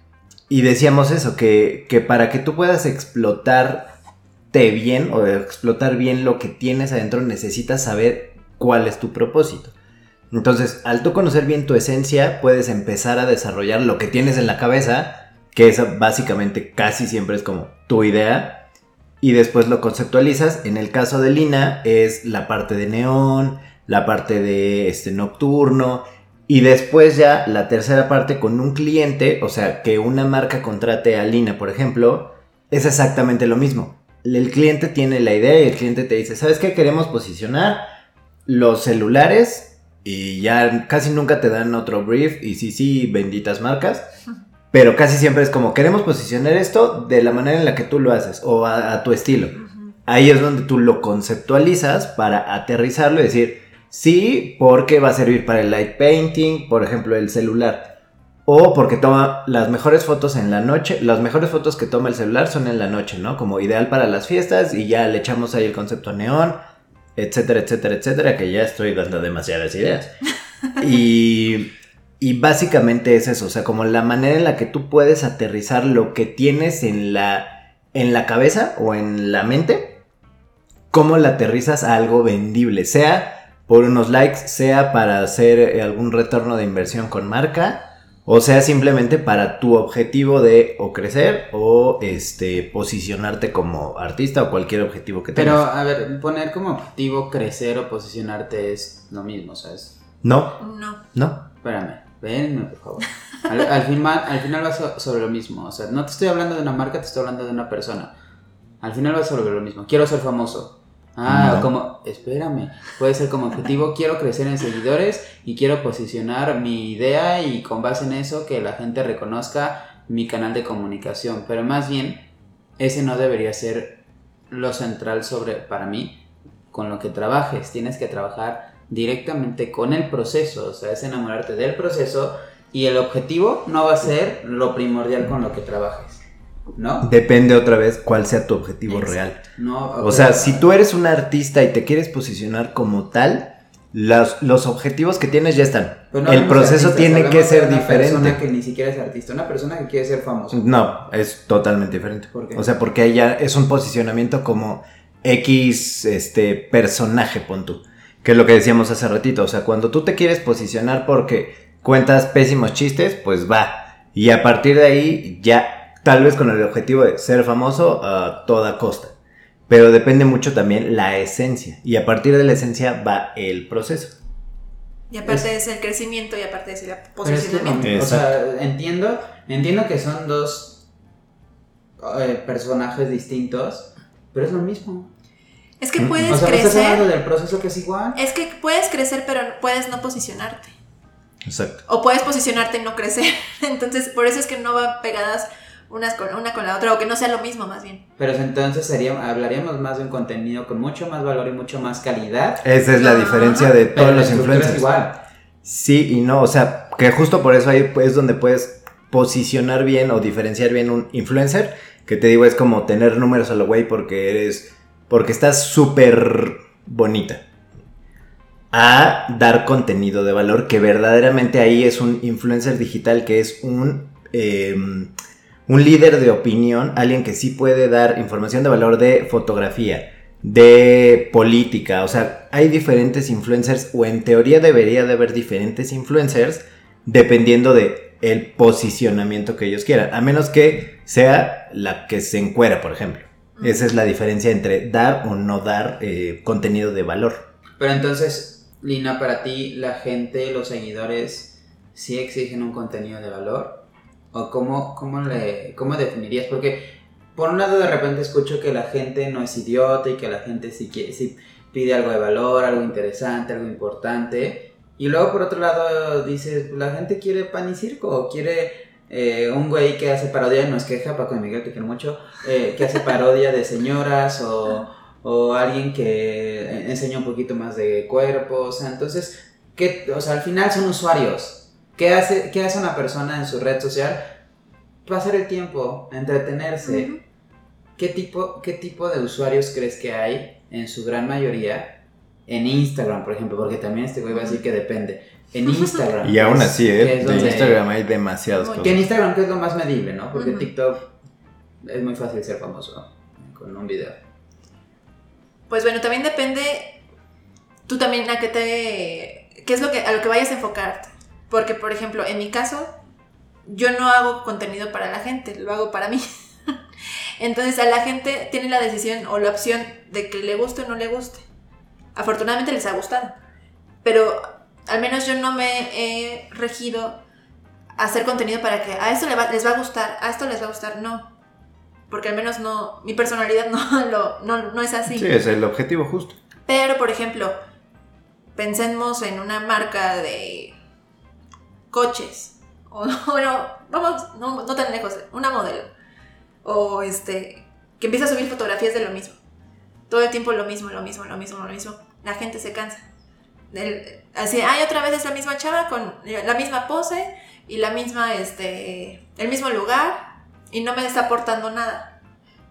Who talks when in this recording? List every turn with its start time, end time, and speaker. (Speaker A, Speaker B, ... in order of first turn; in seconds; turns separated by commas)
Speaker A: 0.5-3.9, Speaker A: 4.5-9.7, Speaker A: 10.3-18.6, Speaker A: 19.2-37.8, Speaker A: 38.5-44.1, Speaker A: 44.7-57.9, Speaker B: 49.6-49.9, Speaker A: 58.5-66.6, Speaker A: 67.2-70.2, Speaker A: 70.8-80.0, Speaker A: 80.9-95.6, Speaker C: 95.3-100.0, Speaker A: 100.2-100.6, Speaker B: 100.6-101.0, Speaker A: 101.1-101.4, Speaker C: 101.6-108.1, Speaker C: 108.8-122.2, Speaker A: 111.2-111.7, Speaker C: 122.8-136.2, Speaker C: 136.7-137.1, Speaker A: 137.0-139.4, Speaker C: 138.9-140.7, Speaker A: 140.0-148.4, Speaker C: 146.1-150.6, Speaker A: 150.5-169.1, Speaker C: 152.3-152.7, Speaker A: 169.7-174.2, Speaker B: 175.1-177.8, Speaker C: 175.2-175.5, Speaker C: 177.2-180.8, Speaker A: 177.8-178.3, Speaker C: 182.0-185.1, Speaker B: 185.8-187.1, Speaker A: 186.0-186.4, Speaker C: 186.3-188.2, Speaker B: 188.1-190.8, Speaker A: 191.4-191.8, Speaker B: 191.8-198.0, Speaker C: 198.2-202.6, Speaker A: 202.6-204.9, Speaker B: 203.0-203.7, Speaker C: 203.9-205.2, Speaker A: 205.6-217.4, Speaker A: 218.7-225.1, Speaker A: 225.7-247.5, Speaker B: 243.6-243.9, Speaker C: 247.8-284.3, Speaker C: 285.0-287.1, Speaker B: 286.8-287.2, Speaker C: 288.0-297.8, Speaker B: 294.3-294.6, Speaker A: 296.2-299.1, Speaker B: 297.3-297.7, Speaker B: 298.6-298.9, Speaker C: 298.8-301.1, Speaker B: 300.3-300.7, Speaker C: 301.8-304.2, Speaker B: 305.7-307.0, Speaker B: 307.9-312.9, Speaker B: 313.6-316.3, Speaker B: 317.4-321.4, Speaker B: 322.1-323.4, Speaker B: 324.0-327.2, Speaker B: 328.0-331.3, Speaker B: 332.1-335.3, Speaker A: 335.1-336.4, Speaker B: 336.7-337.6, Speaker B: 338.6-340.8, Speaker B: 341.9-345.9, Speaker B: 346.6-349.4, Speaker B: 350.1-353.0, Speaker B: 353.7-362.1